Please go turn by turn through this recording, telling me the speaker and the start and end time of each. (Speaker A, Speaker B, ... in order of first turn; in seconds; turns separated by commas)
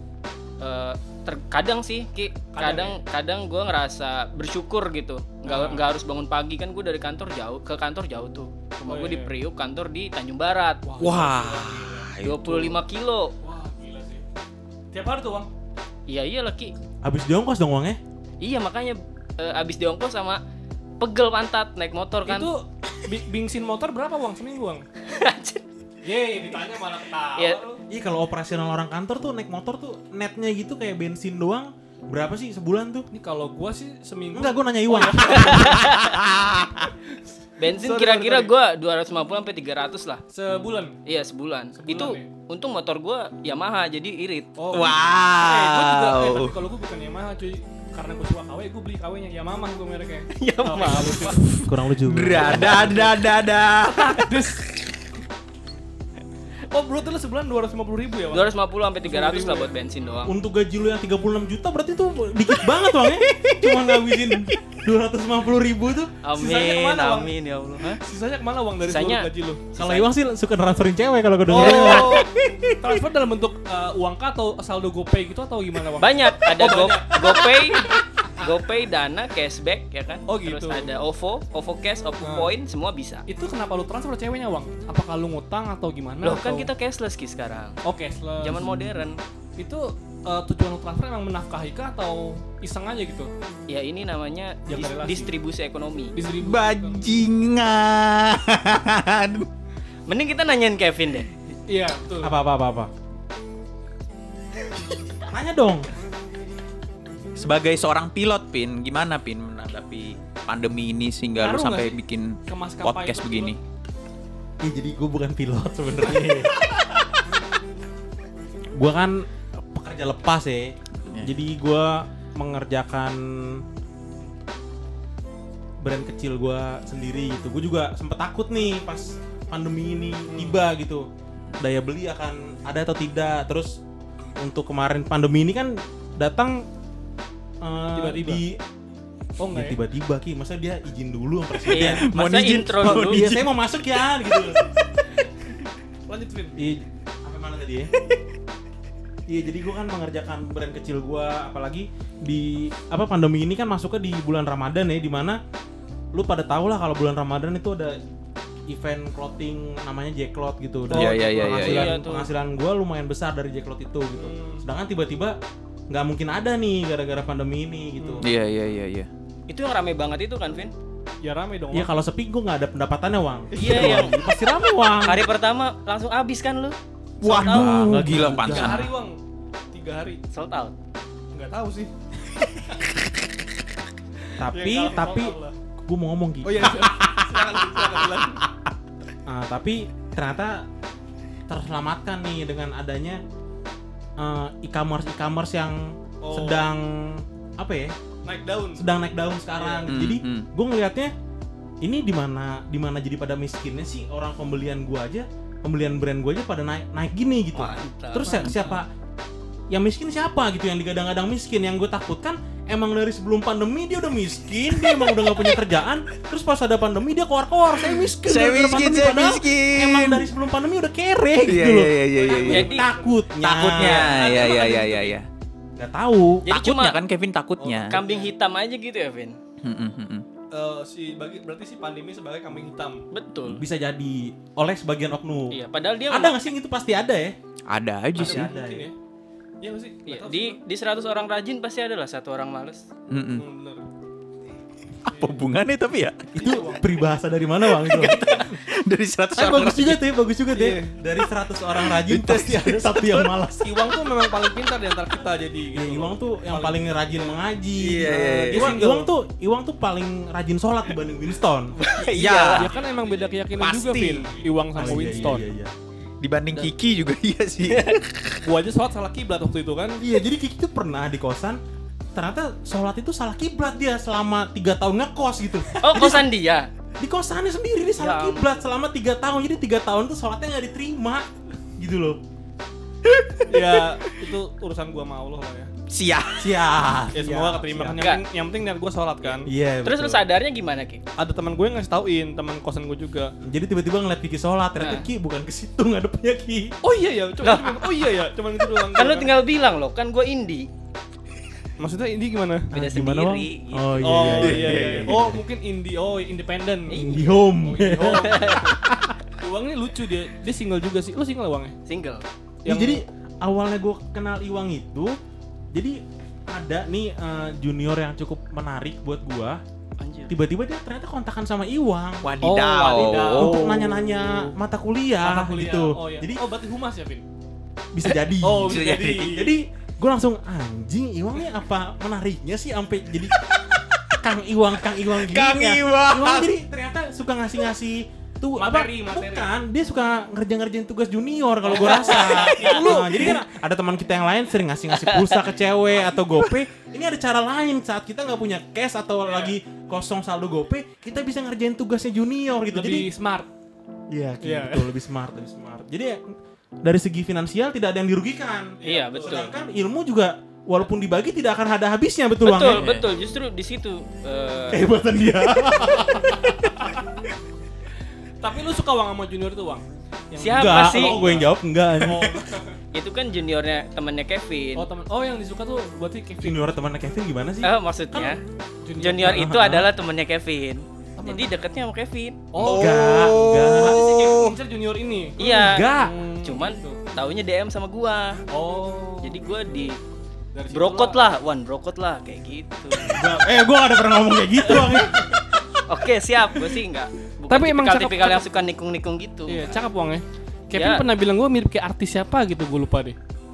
Speaker A: 0.6-10.8, Speaker B: 2.5-3.0, Speaker B: 5.5-5.9, Speaker B: 8.9-9.3, Speaker B: 10.8-12.1, Speaker C: 11.0-12.8, Speaker A: 12.2-13.3, Speaker B: 13.4-14.2, Speaker B: 14.9-15.5, Speaker A: 16.1-16.7, Speaker D: 17.0-18.0, Speaker A: 18.4-20.4, Speaker A: 21.0-22.5, Speaker B: 22.2-24.8, Speaker A: 25.1-25.6, Speaker B: 26.0-27.8, Speaker D: 27.9-33.1, Speaker B: 33.1-35.7, Speaker D: 34.3-35.8, Speaker A: 35.3-36.1, Speaker C: 35.7-36.9, Speaker A: 37.6-40.2, Speaker B: 37.6-38.5, Speaker B: 40.3-41.0, Speaker A: 41.0-44.5, Speaker B: 41.8-42.3, Speaker B: 44.6-51.6, Speaker C: 44.7-46.6, Speaker A: 50.3-51.4, Speaker D: 51.6-53.0, Speaker C: 52.0-54.3, Speaker B: 52.4-53.1, Speaker B: 53.9-54.8, Speaker B: 56.7-58.5, Speaker A: 58.3-60.4, Speaker B: 59.0-59.8, Speaker D: 60.2-66.1, Speaker C: 62.7-64.8, Speaker A: 66.2-68.0, Speaker B: 66.4-67.3, Speaker B: 67.9-69.7, Speaker A: 68.8-70.1, Speaker D: 69.8-72.2, Speaker B: 71.5-72.3, Speaker A: 71.6-72.3, Speaker B: 72.8-77.2, Speaker A: 76.0-83.2, Speaker B: 80.3-80.9, Speaker B: 82.2-82.5, Speaker B: 83.3-86.7, Speaker A: 86.2-87.8, Speaker B: 87.8-88.9, Speaker A: 88.4-89.2, Speaker B: 89.6-93.3, Speaker A: 93.7-96.2, Speaker B: 94.7-95.3, Speaker B: 96.1-97.1, Speaker C: 96.4-99.5, Speaker A: 100.1-101.3, Speaker B: 101.7-102.4, Speaker D: 102.2-102.9, Speaker D: 105.3-105.9, Speaker C: 107.3-113.6, Speaker B: 111.4-113.6, Speaker D: 114.6-116.7, Speaker D: 118.7-123.6, Speaker D: 125.8-131.1, Speaker B: 130.3-130.6, Speaker D: 131.6-133.8, Speaker D: 134.4-136.6, Speaker D: 137.6-138.6, Speaker B: 137.9-138.4, Speaker B: 139.4-139.8, Speaker D: 139.5-142.1, Speaker A: 141.7-143.2, Speaker C: 141.8-143.5, Speaker D: 142.8-144.6, Speaker B: 146.1-146.6, Speaker D: 146.6-147.9, Speaker D: 149.3-155.4, Speaker D: 156.1-158.0, Speaker D: 158.7-165.3, Speaker B: 160.9-161.3, Speaker C: 160.9-161.9, Speaker A: 161.6-162.3, Speaker B: 164.2-164.6, Speaker D: 165.9-168.3, Speaker B: 168.0-168.3, Speaker C: 168.2-169.1, Speaker A: 169.5-170.7, Speaker B: 171.2-171.9, Speaker D: 171.7-175.2, Speaker B: 173.6-174.1, Speaker A: 173.6-174.1, Speaker A: 175.0-177.8, Speaker D: 177.2-178.9, Speaker C: 177.2-178.8, Speaker B: 178.3-179.2, Speaker B: 179.7-180.2, Speaker A: 180.3-180.7, Speaker B: 181.3-182.9, Speaker D: 184.4-187.0, Speaker B: 184.4-185.6, Speaker B: 186.4-188.5, Speaker D: 189.3-190.6, Speaker D: 191.5-193.2, Speaker D: 194.2-197.9, Speaker B: 196.2-196.7, Speaker B: 198.2-198.9, Speaker D: 198.7-201.1, Speaker B: 199.5-199.9, Speaker C: 199.9-200.5, Speaker D: 201.8-208.8, Speaker A: 207.5-208.5, Speaker D: 209.7-224.2, Speaker C: 214.9-215.5, Speaker C: 218.0-220.2, Speaker C: 221.4-222.7, Speaker B: 222.2-223.2, Speaker A: 222.4-222.9, Speaker C: 223.4-225.3, Speaker A: 223.8-224.8, Speaker B: 224.0-225.1, Speaker D: 225.8-226.4, Speaker A: 226.4-227.0, Speaker C: 226.5-228.0, Speaker B: 227.6-228.3, Speaker A: 227.9-229.4, Speaker C: 229.6-230.2, Speaker B: 230.5-233.0, Speaker A: 233.1-233.6, Speaker D: 233.5-235.6, Speaker A: 235.5-236.4, Speaker D: 236.1-237.3, Speaker C: 237.7-238.5, Speaker D: 238.2-238.9, Speaker B: 238.2-238.9, Speaker B: 239.6-240.6, Speaker A: 240.1-242.9, Speaker C: 243.1-243.4, Speaker B: 243.3-243.8, Speaker B: 245.1-245.4, Speaker C: 245.1-246.2, Speaker D: 246.3-248.3, Speaker B: 246.4-247.0, Speaker C: 247.8-250.9, Speaker D: 249.3-253.8, Speaker C: 251.8-253.3, Speaker B: 253.6-257.4, Speaker D: 255.7-261.7, Speaker C: 257.8-258.8, Speaker B: 258.0-259.1, Speaker A: 261.8-263.2, Speaker C: 261.9-262.7, Speaker B: 262.6-265.5, Speaker C: 263.6-264.3, Speaker D: 264.7-265.7, Speaker C: 266.2-268.4, Speaker A: 267.7-268.0, Speaker B: 268.4-270.0, Speaker D: 270.0-271.6, Speaker D: 272.1-276.3, Speaker A: 275.8-276.7, Speaker D: 277.0-281.2, Speaker A: 278.0-278.6, Speaker D: 281.8-282.2, Speaker C: 283.1-283.8, Speaker B: 283.5-285.7, Speaker C: 285.9-286.6, Speaker D: 286.4-288.0, Speaker B: 287.1-289.5, Speaker D: 289.5-290.2, Speaker A: 289.8-291.0, Speaker B: 291.2-293.3, Speaker D: 293.4-296.7, Speaker A: 294.8-295.1, Speaker B: 296.8-299.4, Speaker A: 297.4-297.9, Speaker A: 298.9-300.7, Speaker B: 301.8-302.7, Speaker A: 302.7-304.0, Speaker D: 302.7-305.4, Speaker B: 304.0-307.0, Speaker C: 304.4-305.2, Speaker A: 306.9-307.4, Speaker D: 306.9-309.1, Speaker B: 307.6-308.8, Speaker A: 308.1-308.8, Speaker B: 309.4-311.7, Speaker A: 311.9-312.2, Speaker B: 312.6-313.0, Speaker D: 312.6-315.1, Speaker D: 315.7-316.0, Speaker D: 316.5-319.6, Speaker A: 320.0-320.3, Speaker D: 320.3-322.4, Speaker C: 322.2-324.0, Speaker B: 322.4-324.4, Speaker D: 323.2-326.4, Speaker B: 325.2-327.2, Speaker D: 327.9-333.4, Speaker B: 328.4-329.4, Speaker C: 328.6-329.5, Speaker D: 334.1-353.1, Speaker C: 335.1-336.5, Speaker B: 338.6-339.5, Speaker B: 341.6-343.4, Speaker A: 341.8-342.8, Speaker A: 345.0-345.4, Speaker B: 345.9-346.2, Speaker B: 349.2-349.5, Speaker B: 352.7-353.5, Speaker D: 354.1-362.9, Speaker B: 354.4-354.9, Speaker B: 358.8-359.5, Speaker A: 358.8-359.5, Speaker A: 362.4-364.9, Speaker C: 362.8-363.1, Speaker D: 364.7-366.9, Speaker B: 368.4-372.7, Speaker A: 370.4-371.2, Speaker D: 370.5-372.5, Speaker A: 372.9-374.9, Speaker B: 374.8-376.7, Speaker D: 376.4-378.4, Speaker A: 377.6-378.4, Speaker B: 378.8-379.4, Speaker A: 379.0-382.4, Speaker D: 379.2-379.9, Speaker B: 381.2-381.6, Speaker B: 382.5-385.4, Speaker D: 382.6-384.0, Speaker C: 382.6-384.5, Speaker D: 385.4-386.1, Speaker A: 385.4-388.4, Speaker B: 385.9-387.0, Speaker B: 388.5-389.6, Speaker A: 389.2-389.9, Speaker B: 390.5-391.2, Speaker A: 390.7-393.3, Speaker D: 393.1-395.5, Speaker A: 395.9-399.8, Speaker B: 397.5-398.4, Speaker B: 399.5-403.2, Speaker A: 400.7-401.1